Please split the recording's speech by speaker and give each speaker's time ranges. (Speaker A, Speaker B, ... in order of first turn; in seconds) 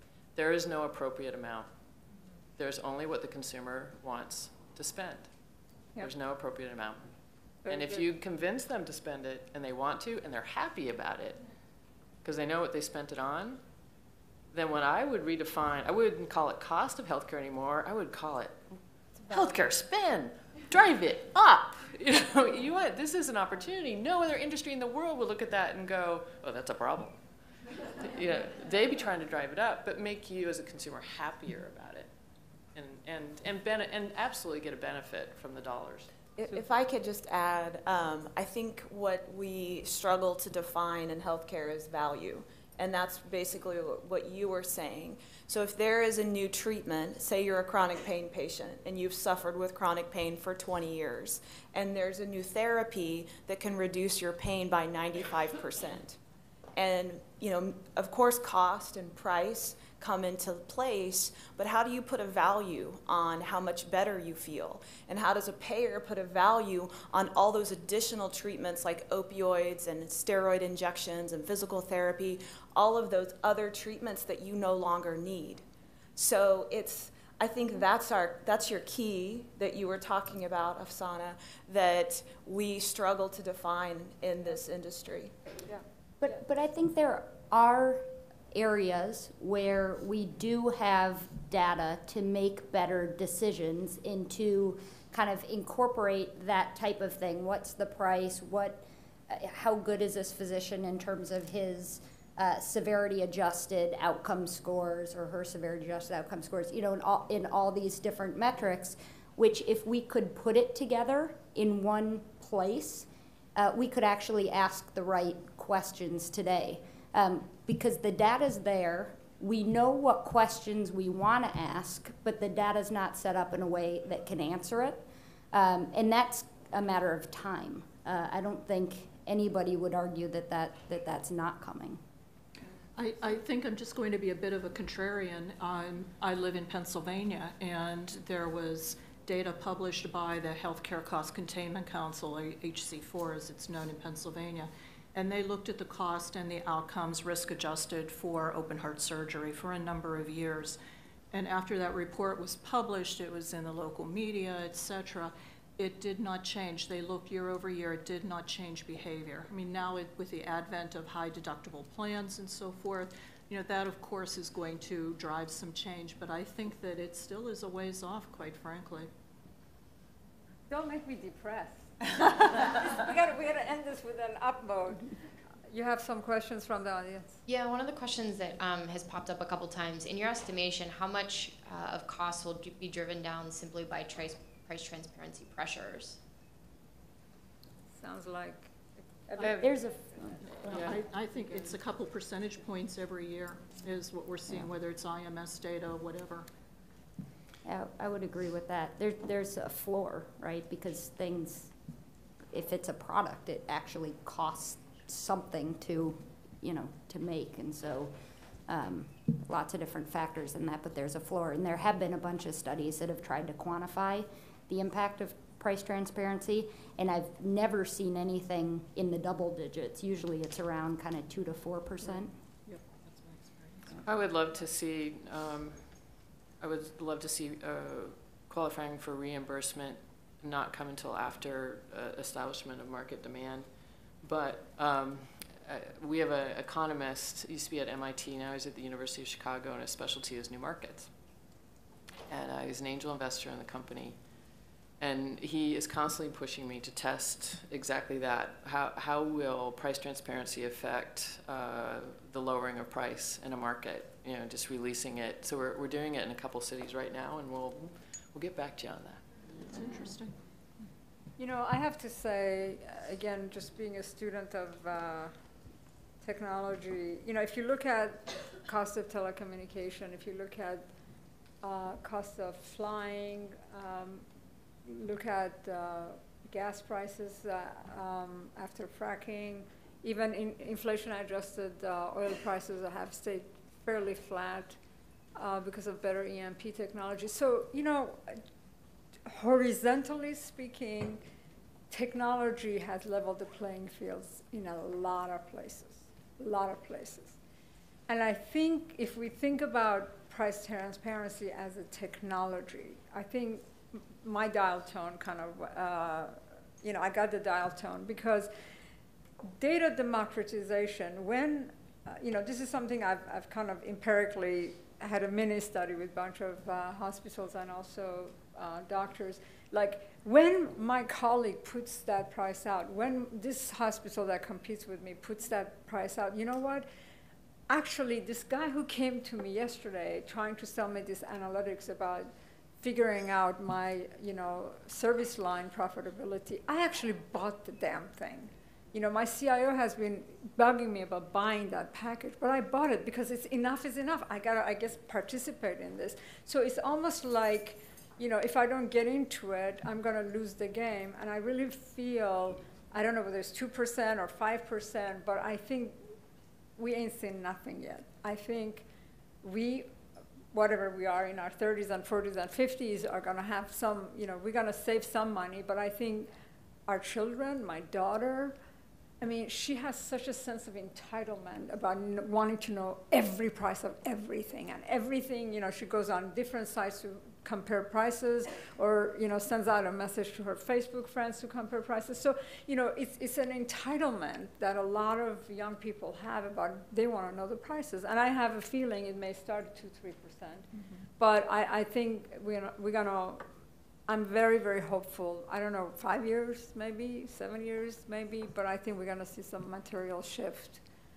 Speaker A: 0.4-1.7, 2.6-5.3, 6.0-7.1, 7.7-11.4, 12.2-13.6, 14.5-18.6, 19.3-27.2, 28.0-32.1, 32.7-36.1, 224.0-225.8, 226.6-233.7, 234.2-241.1, 242.3-244.2, 245.0-259.2
Speaker B: 7.6-8.0, 36.4-36.6, 170.7-175.1, 175.7-177.4, 188.0-189.7, 261.4-265.3, 266.2-270.9, 271.6-274.3, 274.9-284.8, 285.4-288.4, 289.3-291.2, 291.9-297.4, 298.1-308.5, 309.6-326.9, 327.7-332.3, 332.8-356.0, 356.8-358.9, 359.4-359.9, 360.5-366.3, 366.9-368.6, 369.2-390.7, 391.2-393.4, 394.1-400.8
Speaker C: 36.5-56.2, 56.8-75.6, 76.2-85.3
Speaker D: 86.2-132.0, 189.6-190.8, 197.6-201.7, 202.5-208.1, 208.7-222.3
Speaker E: 132.9-150.8, 151.3-169.1, 189.4-189.6, 190.5-196.4, 222.7-224.0, 259.7-260.3, 390.7-391.0
Speaker F: 177.5-186.2